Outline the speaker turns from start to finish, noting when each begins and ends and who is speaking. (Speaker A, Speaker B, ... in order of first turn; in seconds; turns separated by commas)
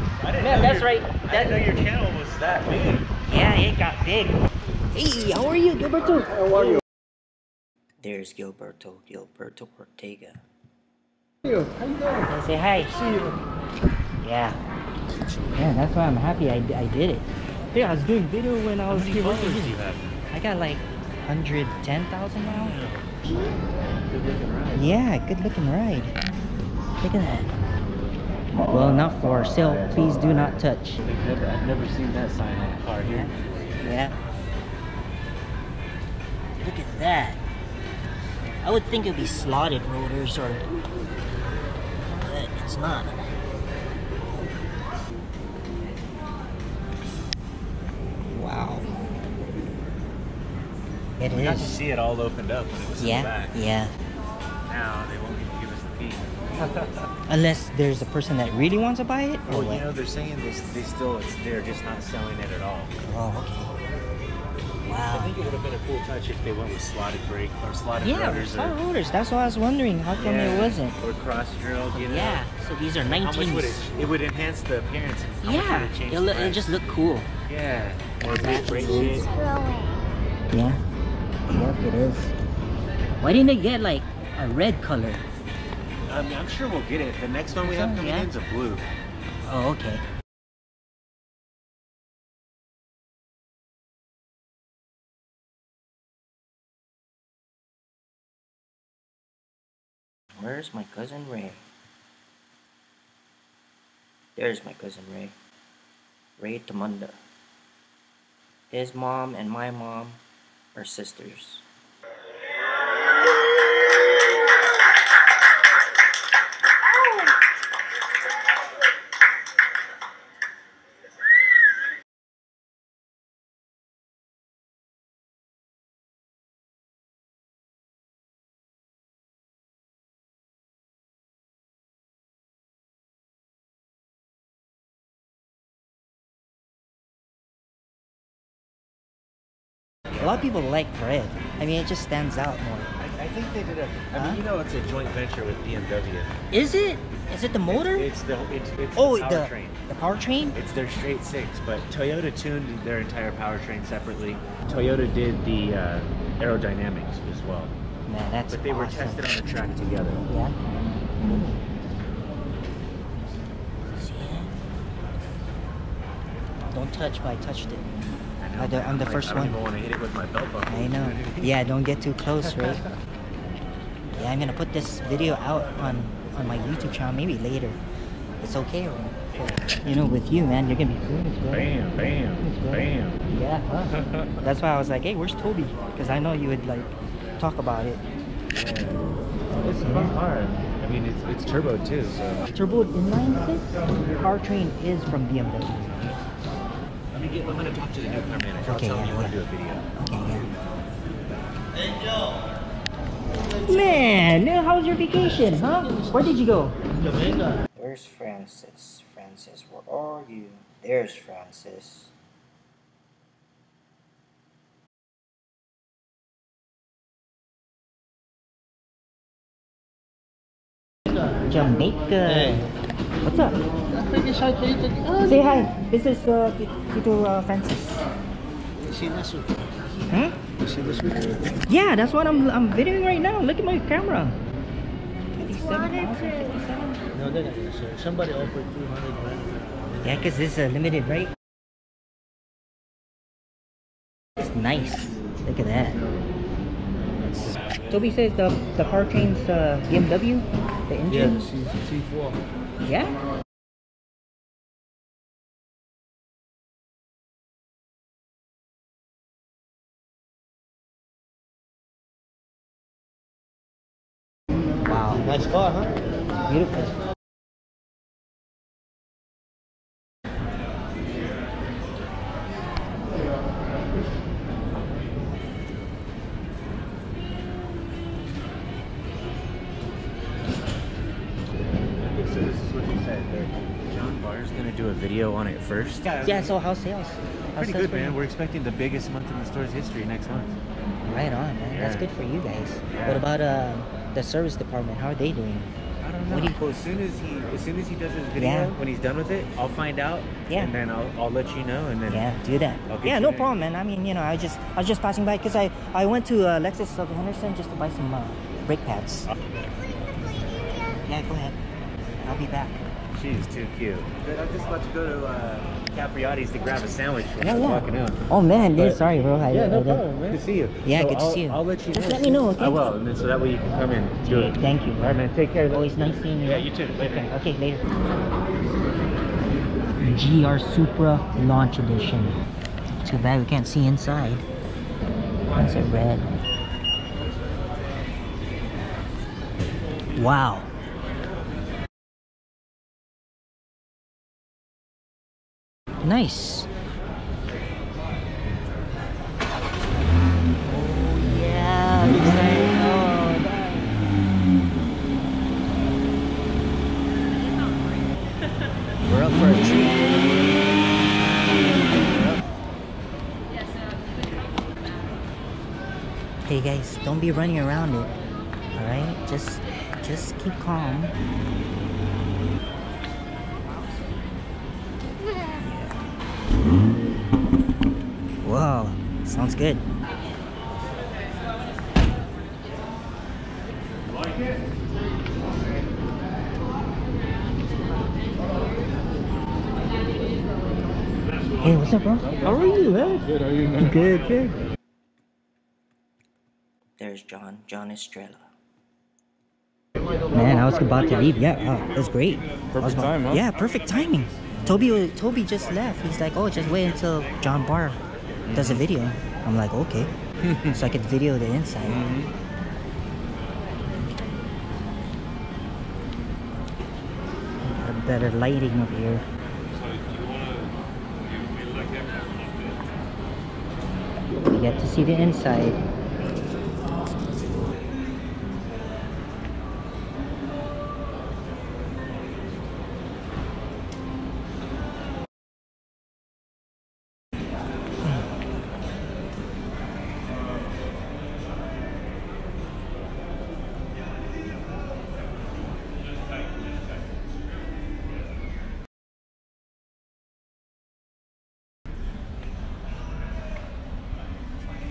Speaker A: 0.2-3.1, Speaker B: 0.4-1.6, Speaker B: 3.3-6.8, Speaker B: 8.0-10.4, Speaker B: 12.2-13.0, Speaker A: 13.0-13.3, Speaker B: 14.2-14.6, Speaker B: 15.5-19.7, Speaker A: 18.9-20.2, Speaker B: 20.3-22.8, Speaker A: 22.5-23.1, Speaker A: 24.1-25.0, Speaker B: 24.7-26.1, Speaker B: 27.0-27.5, Speaker B: 28.7-31.0, Speaker A: 29.5-33.4, Speaker B: 33.0-34.2, Speaker B: 36.6-37.4, Speaker B: 38.6-40.6, Speaker B: 42.1-43.3, Speaker B: 48.3-48.9, Speaker B: 51.2-51.7, Speaker A: 51.3-53.5, Speaker B: 53.0-53.9, Speaker A: 54.6-57.0, Speaker B: 57.3-59.9, Speaker A: 59.5-62.9, Speaker B: 63.0-63.7, Speaker B: 64.8-65.3, Speaker A: 65.0-68.8, Speaker B: 68.0-71.0, Speaker A: 70.1-72.4, Speaker B: 71.9-73.8, Speaker A: 73.0-76.7, Speaker B: 75.4-77.3, Speaker A: 77.5-79.3, Speaker B: 78.3-79.2, Speaker C: 78.4-80.1, Speaker B: 80.5-80.8, Speaker B: 81.5-82.3, Speaker B: 83.2-85.2, Speaker A: 86.1-88.9, Speaker B: 87.6-88.3, Speaker B: 89.4-90.0, Speaker B: 100.4-101.6, Speaker B: 104.3-105.3, Speaker B: 106.4-107.2, Speaker B: 108.7-110.2, Speaker B: 110.7-111.6, Speaker B: 140.2-142.9, Speaker A: 143.0-146.3, Speaker B: 144.1-144.4, Speaker B: 146.5-148.1, Speaker A: 147.7-149.8, Speaker B: 148.9-150.6, Speaker A: 150.5-157.7, Speaker B: 158.1-159.2, Speaker A: 158.5-160.2, Speaker B: 160.3-160.5, Speaker B: 163.9-164.5, Speaker B: 166.7-167.9, Speaker A: 168.4-171.5, Speaker B: 168.6-169.6, Speaker B: 170.7-172.8, Speaker B: 174.2-177.8, Speaker B: 178.4-181.7, Speaker A: 179.3-179.9, Speaker A: 181.5-183.2, Speaker B: 182.4-182.8, Speaker B: 183.3-188.0, Speaker A: 183.9-184.3, Speaker A: 188.5-189.0, Speaker A: 189.6-192.4, Speaker B: 189.8-190.1, Speaker B: 192.5-196.2, Speaker A: 197.1-199.9, Speaker B: 198.6-199.4, Speaker B: 200.0-200.5, Speaker B: 203.6-206.8, Speaker B: 207.8-212.1, Speaker B: 221.4-222.7, Speaker B: 223.2-223.6, Speaker D: 224.5-224.9, Speaker B: 225.2-228.1, Speaker B: 230.1-230.3, Speaker B: 231.7-234.4, Speaker B: 235.3-237.0, Speaker C: 235.6-236.5, Speaker D: 237.2-239.2, Speaker B: 240.0-241.3, Speaker B: 244.4-246.0, Speaker A: 247.3-247.7, Speaker B: 247.9-251.6, Speaker B: 252.8-253.2, Speaker B: 264.9-265.4, Speaker B: 266.4-267.0, Speaker A: 282.0-286.5, Speaker B: 286.2-288.2, Speaker A: 287.5-290.6, Speaker B: 291.0-295.7, Speaker A: 291.7-292.1, Speaker A: 292.9-293.2, Speaker A: 296.0-302.3, Speaker B: 296.3-296.6, Speaker B: 298.4-298.7, Speaker B: 302.1-309.3, Speaker A: 302.9-303.5, Speaker B: 311.0-311.6, Speaker B: 312.2-312.8, Speaker A: 313.1-327.3, Speaker B: 317.4-320.0, Speaker B: 320.8-322.9, Speaker B: 324.2-327.9, Speaker B: 330.0-332.4, Speaker B: 333.0-334.4, Speaker B: 335.6-336.3, Speaker B: 340.1-340.7, Speaker B: 346.0-346.7, Speaker B: 350.6-353.9, Speaker B: 359.0-360.2, Speaker B: 361.7-362.4, Speaker B: 366.4-368.1, Speaker B: 368.7-371.1, Speaker B: 375.6-376.0, Speaker B: 378.4-379.8, Speaker B: 391.6-394.6, Speaker B: 397.0-398.5, Speaker B: 400.3-410.1, Speaker A: 402.7-403.4, Speaker A: 408.4-408.8, Speaker B: 410.6-412.1, Speaker A: 411.9-412.3, Speaker B: 417.6-419.2, Speaker A: 420.1-420.7, Speaker B: 424.4-425.8